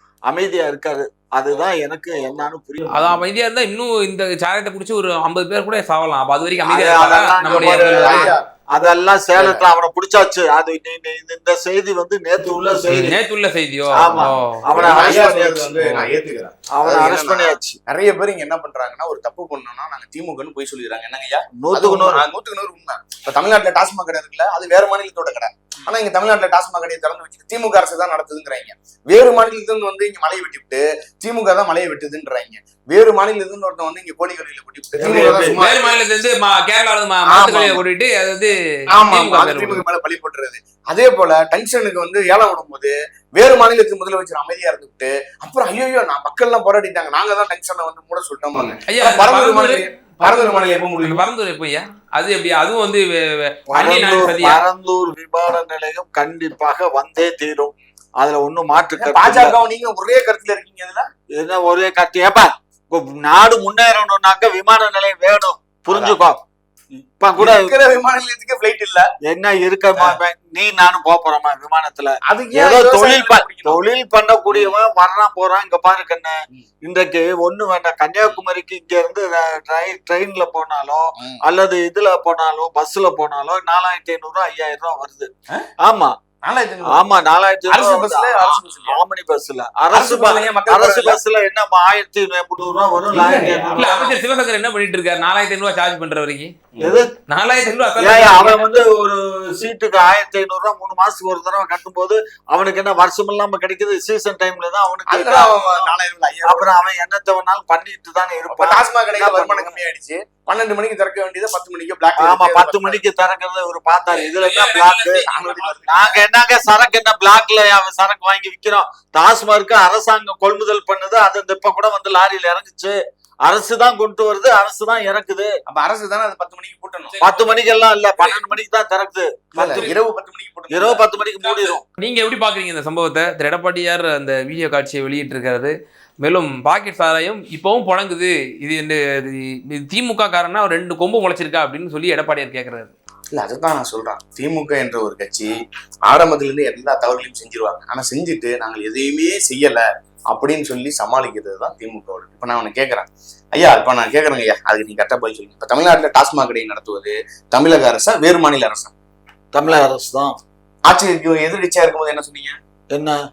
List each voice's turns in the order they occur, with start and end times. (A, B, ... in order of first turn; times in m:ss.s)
0:00.3-0:03.2 A
0:02.9-0:08.3 B
0:06.6-0:13.2 A
0:07.4-0:08.4 C
0:12.9-0:15.0 B
0:13.9-0:15.9 A
0:14.7-0:36.0 C
0:15.8-0:16.0 B
0:16.8-0:17.8 A
0:21.6-0:22.2 A
0:35.0-0:35.6 A
0:35.6-0:39.8 B
0:37.3-0:37.8 C
0:38.9-0:51.2 C
0:48.6-0:54.6 B
0:53.7-0:59.6 A
0:59.0-1:01.0 C
1:01.4-1:06.4 A
1:05.9-1:06.2 C
1:07.0-1:07.7 A
1:07.4-1:09.1 C
1:09.2-1:25.3 A
1:12.2-1:13.8 C
1:25.8-1:26.1 A
1:26.4-1:27.0 C
1:26.9-1:34.2 A
1:27.7-1:29.0 C
1:29.9-1:31.2 C
1:33.1-1:34.1 C
1:33.8-1:36.5 B
1:36.8-1:37.1 A
1:37.3-1:38.6 B
1:38.0-1:45.9 A
1:45.1-1:46.7 C
1:46.4-1:49.8 A
1:48.5-1:53.0 C
1:52.2-1:55.2 A
1:54.1-1:55.7 B
1:55.3-1:56.2 C
1:55.9-2:05.5 A
2:05.7-2:07.2 C
2:07.1-2:07.6 B
2:07.2-2:09.9 A
2:09.6-2:11.0 C
2:10.7-2:11.8 A
2:11.4-2:22.9 B
2:23.3-2:25.5 C
2:26.0-2:38.9 C
2:39.5-2:40.3 A
2:40.8-2:42.6 C
2:42.9-2:43.2 A